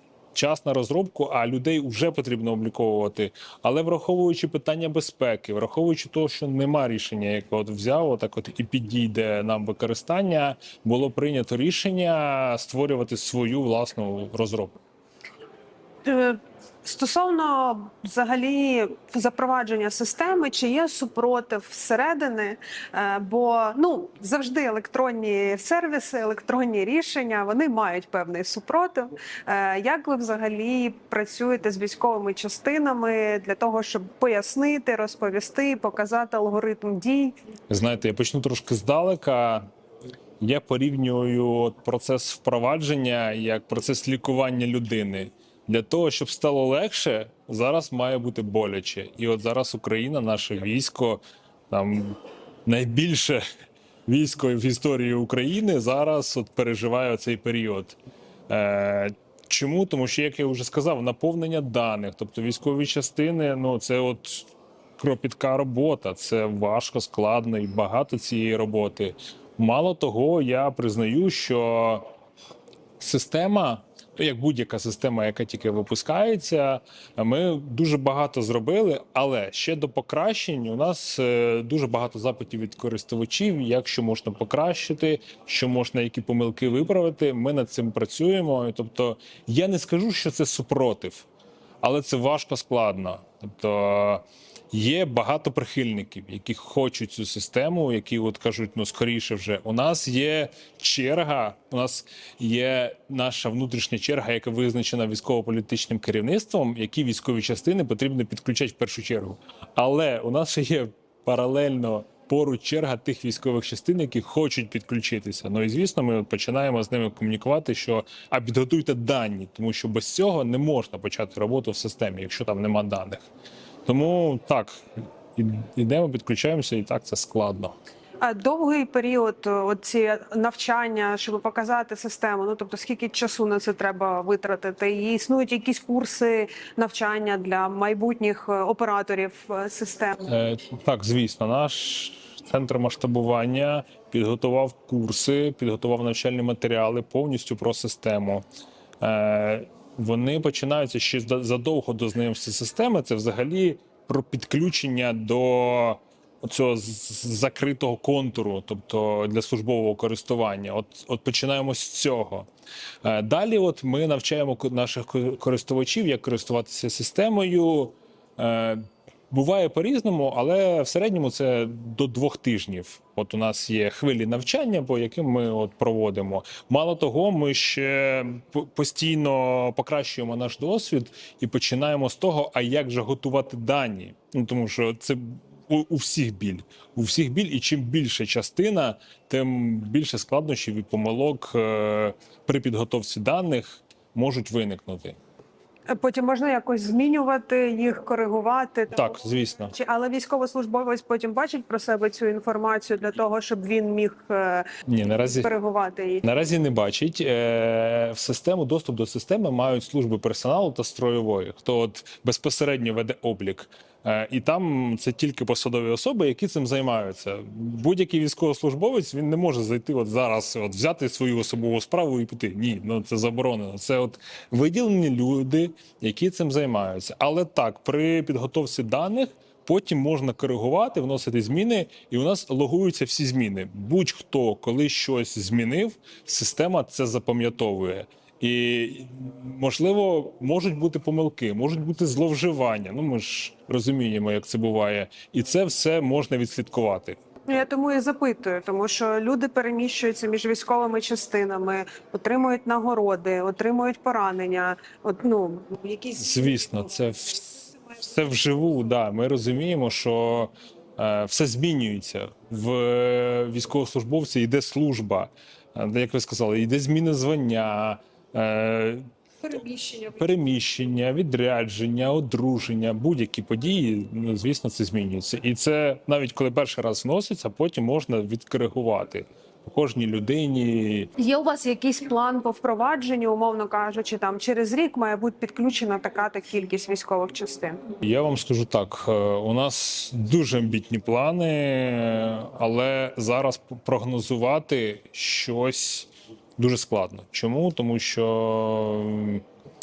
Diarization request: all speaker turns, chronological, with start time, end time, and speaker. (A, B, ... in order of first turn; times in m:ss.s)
0:00.3-0:14.8 A
0:16.0-0:37.4 B
0:37.7-0:39.7 A
0:40.4-0:53.4 A
0:54.1-0:58.0 A
0:58.5-1:12.1 A
1:13.0-1:31.3 A
1:31.8-2:03.3 A
2:03.9-2:04.8 A
2:05.4-2:07.7 A
2:08.2-2:20.2 B
2:20.2-2:28.4 A
2:29.0-2:42.5 A
2:43.0-3:15.2 A
3:15.9-3:19.1 B
3:18.9-3:19.7 A
3:19.7-3:24.7 B
3:24.9-3:25.5 A
3:25.3-3:26.2 B
3:26.2-4:07.2 A
4:07.5-4:16.8 B
4:16.2-4:29.0 A
4:29.4-4:30.2 B
4:30.2-4:41.1 A
4:41.2-4:47.8 B
4:48.0-4:59.4 A